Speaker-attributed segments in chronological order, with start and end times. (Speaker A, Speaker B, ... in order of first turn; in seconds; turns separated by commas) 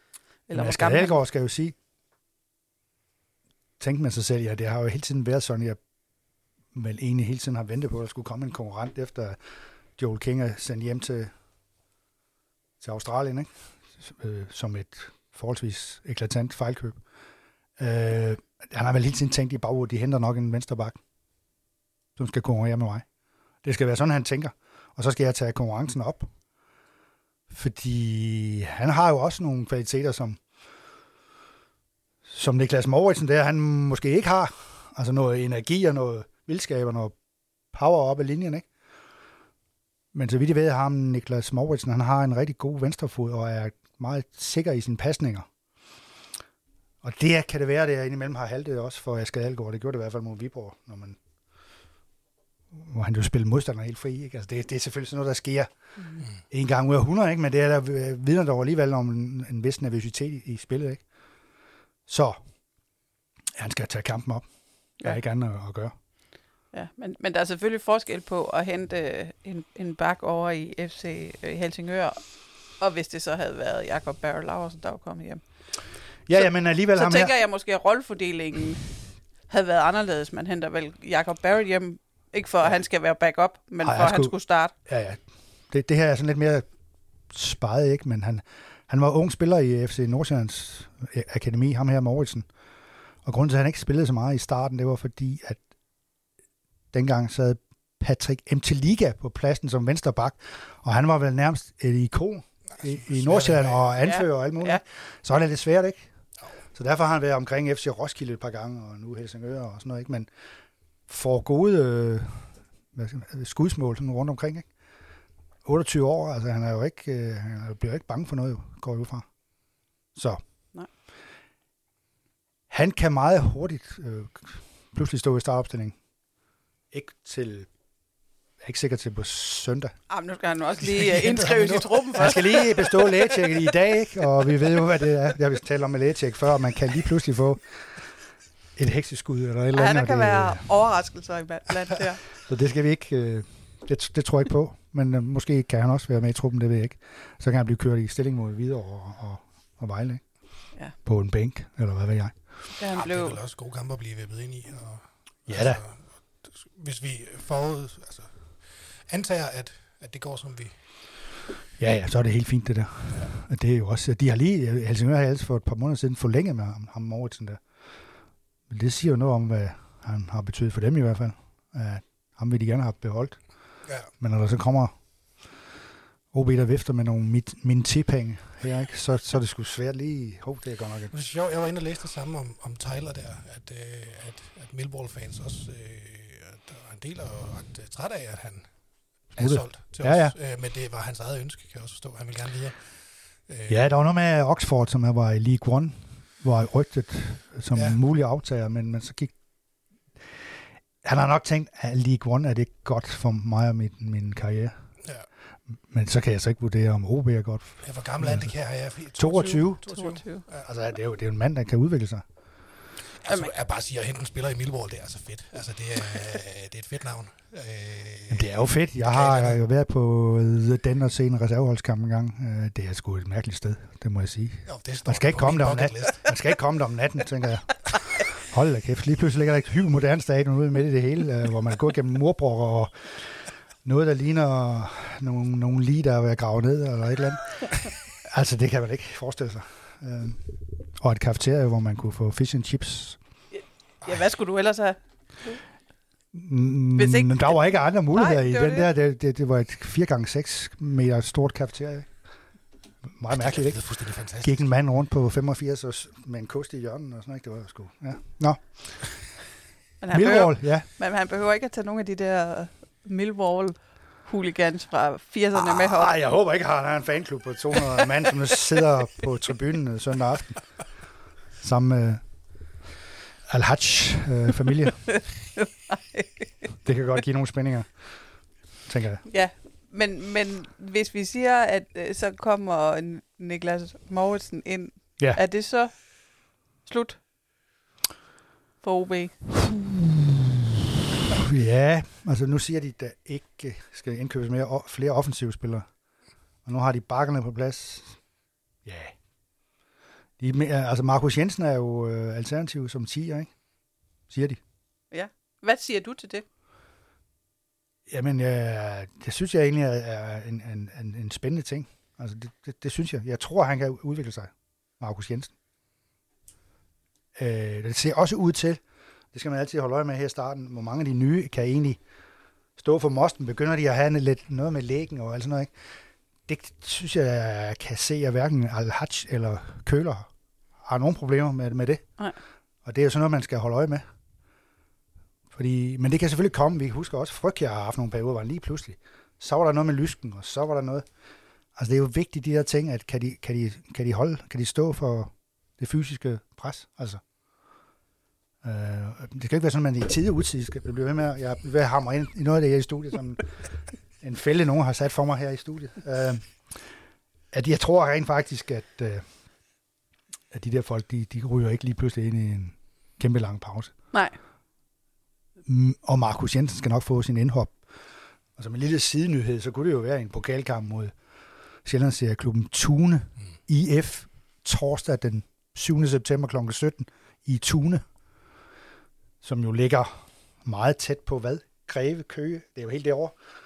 Speaker A: 0.5-1.2, Speaker B: 0.5-1.8, Speaker B: 3.8-5.8, Speaker B: 6.7-9.4, Speaker B: 10.0-11.3, Speaker B: 12.8-17.0, Speaker B: 17.8-21.0, Speaker B: 22.2-23.1, Speaker B: 23.6-26.3, Speaker B: 27.5-30.4, Speaker B: 32.3-37.1, Speaker B: 37.7-38.7, Speaker B: 40.1-45.5, Speaker B: 47.0-51.2, Speaker B: 52.7-55.7, Speaker A: 56.0-56.3, Speaker B: 56.3-61.0, Speaker B: 62.1-62.4, Speaker B: 63.6-64.5, Speaker B: 65.0-65.9, Speaker A: 66.7-75.5, Speaker B: 76.3-77.3, Speaker A: 76.3-78.9, Speaker A: 79.5-84.7, Speaker B: 83.8-86.7, Speaker B: 87.3-92.5, Speaker B: 93.2-95.6, Speaker B: 96.9-106.0, Speaker C: 102.8-104.0, Speaker A: 104.0-104.8, Speaker B: 106.8-110.3, Speaker B: 111.1-114.7, Speaker B: 115.7-119.3, Speaker B: 122.7-126.0, Speaker B: 126.9-127.7, Speaker B: 128.6-129.9, Speaker A: 130.1-133.7, Speaker C: 130.8-132.2, Speaker B: 132.2-138.1, Speaker B: 138.8-140.7, Speaker A: 139.7-142.2, Speaker B: 142.4-150.2, Speaker B: 151.0-152.4, Speaker A: 152.8-153.4, Speaker C: 152.9-160.8, Speaker B: 155.5-155.8, Speaker B: 161.8-167.6, Speaker B: 168.7-173.4, Speaker C: 173.8-174.1, Speaker B: 174.1-174.9, Speaker B: 176.3-181.1, Speaker C: 181.1-188.8, Speaker C: 189.3-193.9, Speaker B: 189.4-190.4, Speaker B: 193.7-199.3, Speaker C: 197.7-198.0, Speaker B: 201.0-204.7, Speaker B: 205.9-208.5, Speaker C: 207.8-210.7, Speaker B: 209.2-209.8, Speaker A: 209.9-210.4, Speaker B: 210.6-212.2, Speaker C: 213.2-219.6, Speaker B: 218.3-243.2, Speaker C: 224.7-226.5, Speaker A: 243.5-245.6, Speaker B: 246.3-252.1, Speaker A: 247.0-247.6, Speaker A: 248.1-248.9, Speaker B: 253.2-253.8, Speaker C: 253.3-254.7, Speaker B: 254.4-259.3, Speaker A: 260.0-266.1, Speaker B: 260.1-260.9, Speaker B: 265.6-270.7, Speaker B: 271.6-272.2, Speaker B: 273.5-275.2, Speaker A: 275.1-276.7, Speaker B: 276.8-278.1, Speaker B: 278.9-279.2, Speaker A: 279.3-287.2, Speaker A: 288.8-289.6, Speaker B: 291.3-295.9, Speaker B: 296.6-298.2, Speaker B: 298.9-299.1, Speaker B: 300.4-303.5, Speaker B: 304.3-304.6, Speaker A: 305.1-306.4, Speaker B: 308.1-315.5, Speaker B: 317.4-318.8, Speaker B: 319.3-322.0, Speaker B: 322.8-325.7, Speaker B: 326.5-330.3, Speaker B: 330.9-332.0, Speaker B: 332.9-334.0, Speaker B: 335.5-341.1, Speaker B: 341.8-347.2, Speaker B: 348.6-353.5, Speaker B: 354.2-356.8, Speaker B: 357.5-359.2, Speaker B: 360.5-363.9, Speaker B: 365.7-367.8, Speaker B: 368.6-371.1, Speaker B: 371.9-378.0, Speaker B: 379.4-383.4